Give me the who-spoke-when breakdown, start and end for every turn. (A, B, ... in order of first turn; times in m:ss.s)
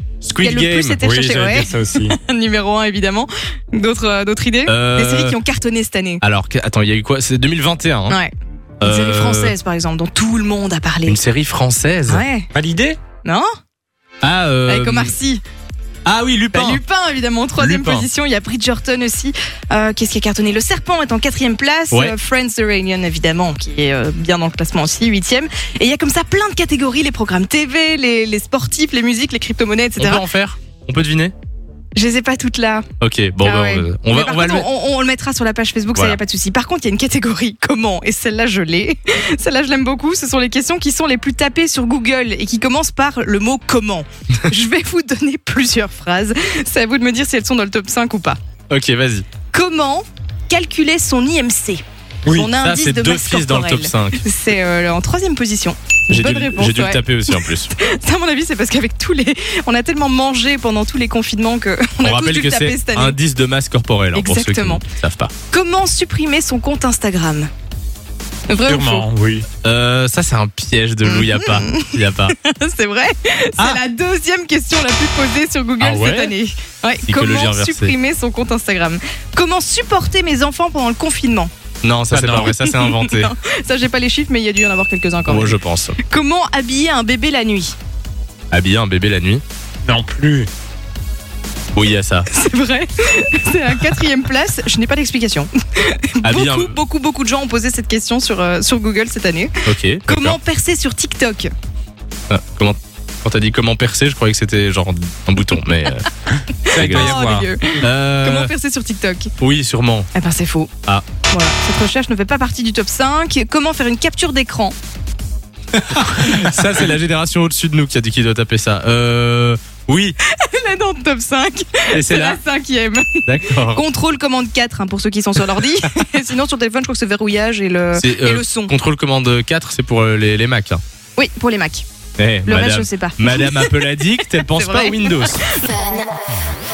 0:00.2-0:01.0 A
0:00.4-0:06.2 B
0:01.0-0:02.2 C
0:04.7-0:05.4 A
0:06.2-0:08.2 A
0:08.8-0:09.5 A
0:08.8-0:11.2 B
0:11.0-0:12.2 A
0:12.1-0:12.5 B
0:12.5-0:13.0 C
0:14.2-0:15.1 A
0:14.7-0:15.4 B
0:16.0-0:16.8 A
0:16.5-0:30.2 B
0:17.6-0:18.1 A
0:30.0-0:31.3 A
0:32.0-0:32.9 B
0:33.0-0:34.6 A
0:33.4-0:48.4 B
0:48.7-0:49.2 A
0:49.5-1:03.2 B
0:52.4-0:54.2 A
0:56.1-0:57.7 A
1:02.0-1:05.3 A
1:04.1-1:04.8 B
1:05.5-1:07.5 B
1:08.5-1:09.1 B
1:08.7-1:09.4 C
1:09.6-1:12.3 A
1:11.0-1:21.5 B
1:15.8-1:16.3 C
1:17.0-1:17.9 A
1:21.8-1:23.3 A
1:22.1-1:22.6 C
1:22.4-1:27.7 B
1:25.2-1:26.0 A
1:28.5-1:29.4 A
1:29.8-1:30.5 C
1:31.7-1:32.3 A
1:32.3-1:41.5 B
1:36.2-1:36.8 A
1:39.6-1:40.4 A
1:42.3-1:46.1 A
1:46.7-1:47.5 C
1:46.7-1:49.3 B
1:46.7-1:47.1 A
1:47.8-1:48.5 A
1:49.4-1:50.1 A
1:50.1-1:50.7 B
1:51.3-1:54.7 B
1:55.9-2:00.2 A
2:00.2-2:08.7 B
2:01.9-2:02.4 A
2:03.2-2:03.8 A
2:07.9-2:10.8 A
2:11.2-2:11.8 B
2:12.2-2:15.4 A
2:12.4-2:16.1 B